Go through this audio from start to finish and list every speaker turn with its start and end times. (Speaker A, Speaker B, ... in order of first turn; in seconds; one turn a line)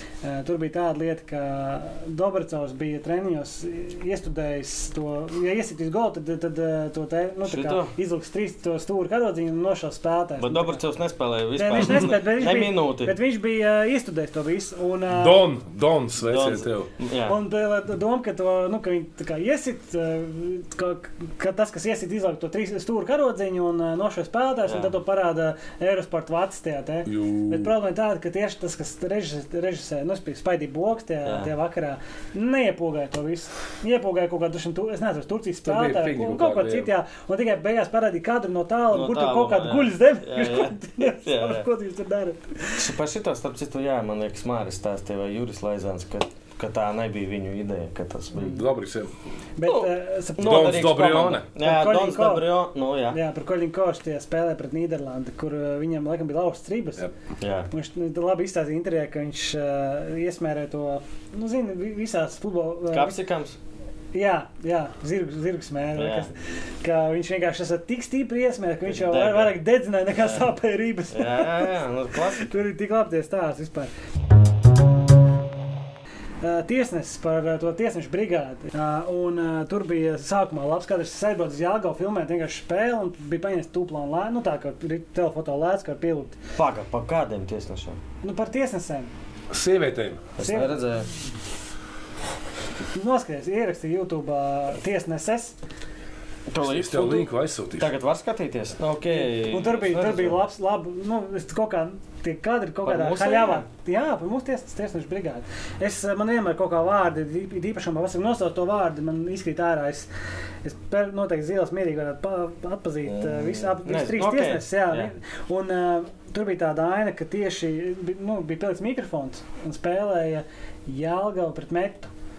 Speaker A: 0.2-10.8
Speaker B: 7.5-7.9
Speaker B: 10.4-13.2
Speaker A: 11.5-15.4
Speaker C: 15.1-16.9
Speaker B: 16.2-17.4
Speaker A: 17.3-42.8
Speaker B: 24.6-24.9
Speaker C: 27.1-27.7
Speaker B: 31.2-31.5
Speaker C: 35.6-36.9
Speaker B: 38.9-41.7
Speaker B: 42.8-48.6
Speaker C: 48.4-49.1
Speaker A: 49.6-51.0
Speaker B: 49.6-53.2
Speaker C: 50.4-51.5
Speaker A: 51.6-52.5
Speaker A: 53.1-57.0
Speaker B: 57.4-57.7
Speaker A: 57.7-63.2
Speaker B: 62.9-63.6
Speaker A: 64.1-71.7
Speaker B: 65.9-66.3
Speaker B: 68.8-69.6
Speaker B: 70.1-70.4
Speaker B: 71.1-72.5
Speaker A: 72.3-73.9
Speaker A: 76.4-86.4
Speaker B: 86.5-88.0
Speaker A: 88.2-89.1
Speaker C: 89.5-90.3
Speaker B: 90.4-91.1
Speaker A: 90.4-90.9
Speaker A: 92.9-95.5
Speaker B: 96.5-100.4
Speaker C: 96.6-97.9
Speaker A: 99.1-110.1
Speaker B: 102.8-103.7
Speaker A: 110.6-122.1
Speaker B: 113.0-115.1